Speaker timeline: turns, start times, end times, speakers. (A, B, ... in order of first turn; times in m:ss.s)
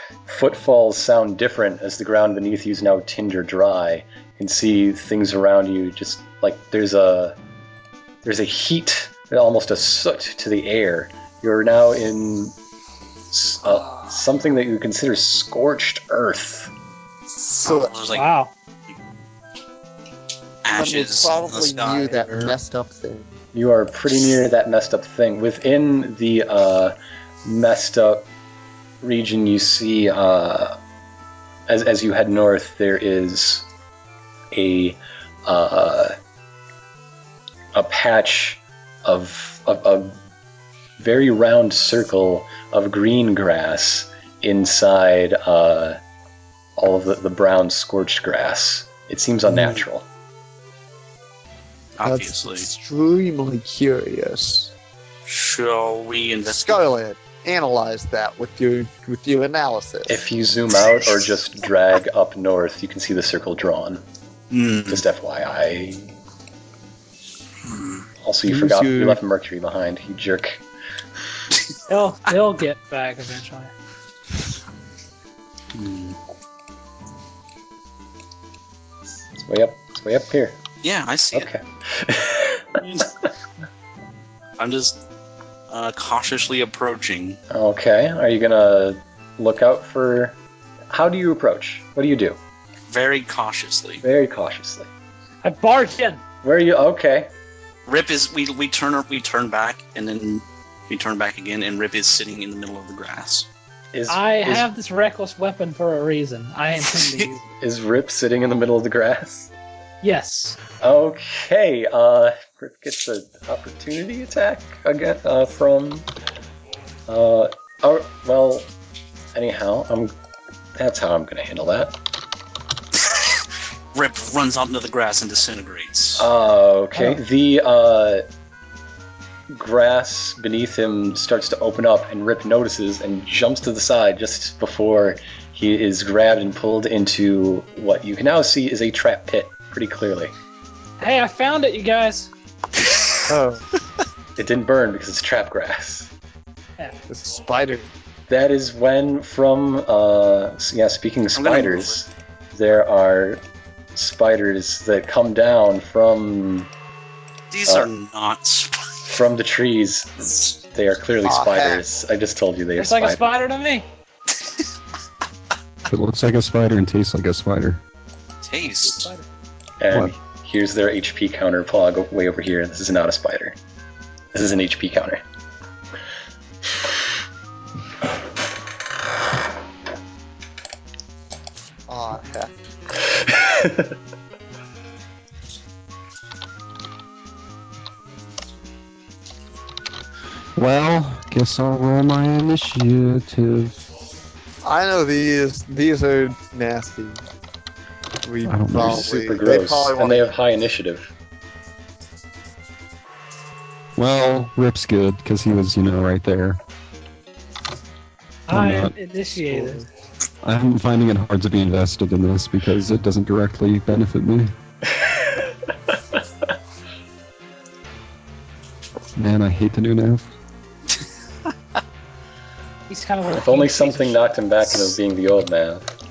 0:00.2-0:07.4 A
0:08.2-0:12.6 A
0:13.3-0:16.7 A
0:17.4-0:17.9 B
0:17.7-0:18.2 C
0:18.1-0:18.5 D
0:20.6-0:22.6 C
0:20.7-0:23.3 B
0:23.5-0:28.2 A
0:29.0-0:30.8 A
0:31.7-0:33.6 A
0:34.5-0:36.1 A
0:37.7-0:40.2 A
0:41.0-0:46.0 A
0:46.8-0:50.0 A
0:49.5-0:49.8 C
0:52.0-0:52.7 C
0:52.0-0:54.7 B
0:55.2-0:56.8 C
0:56.4-1:00.2 B
1:00.1-1:04.0 A
1:04.5-1:05.0 C
1:04.9-1:06.1 A
1:07.7-1:08.0 C
1:08.2-1:10.6 A
1:08.4-1:09.2 B
1:11.9-1:13.7 D
1:15.7-1:16.2 C
1:19.4-1:20.6 A
1:20.8-1:21.5 C
1:21.3-1:22.8 A
1:22.8-1:23.1 C
1:24.6-1:25.0 C
1:25.7-1:27.4 C
1:27.5-1:30.4 A
1:30.9-1:32.4 A
1:32.9-1:34.0 C
1:34.0-1:34.9 A
1:35.4-1:36.2 D
1:36.4-1:37.3 A
1:37.9-1:43.5 C
1:43.9-1:44.7 A
1:44.1-1:47.5 D
1:46.9-1:47.3 C
1:47.6-1:49.5 A
1:50.0-1:50.6 D
1:50.8-1:56.1 A
1:57.1-1:58.7 A
1:59.3-2:00.1 A
2:00.8-2:01.9 A
2:02.9-2:06.3 C
2:06.2-2:08.2 A
2:09.5-2:20.3 A
2:21.0-2:22.3 D
2:23.3-2:23.8 B
2:24.4-2:26.1 A
2:27.1-2:27.9 B
2:28.3-2:33.4 A
2:31.3-2:32.0 C
2:33.9-2:36.7 A
2:37.5-2:38.9 C
2:39.0-2:43.2 A
2:41.2-2:41.8 B
2:42.8-2:43.8 D
2:45.9-2:47.8 E
2:48.4-2:49.1 C
2:48.6-2:49.2 D
2:49.8-2:53.6 A
2:54.3-2:55.2 A
3:01.9-3:02.5 B
3:03.2-3:03.9 A
3:10.6-3:13.8 E
3:14.6-3:17.2 B
3:18.2-3:20.3 B
3:18.4-3:19.0 E
3:18.8-3:21.1 A
3:24.0-3:26.6 E
3:28.5-3:29.8 D
3:28.5-3:28.9 E
3:29.5-3:29.8 B
3:30.4-3:34.5 E
3:39.2-3:40.3 E
3:42.9-3:44.4 D
3:43.3-3:45.8 A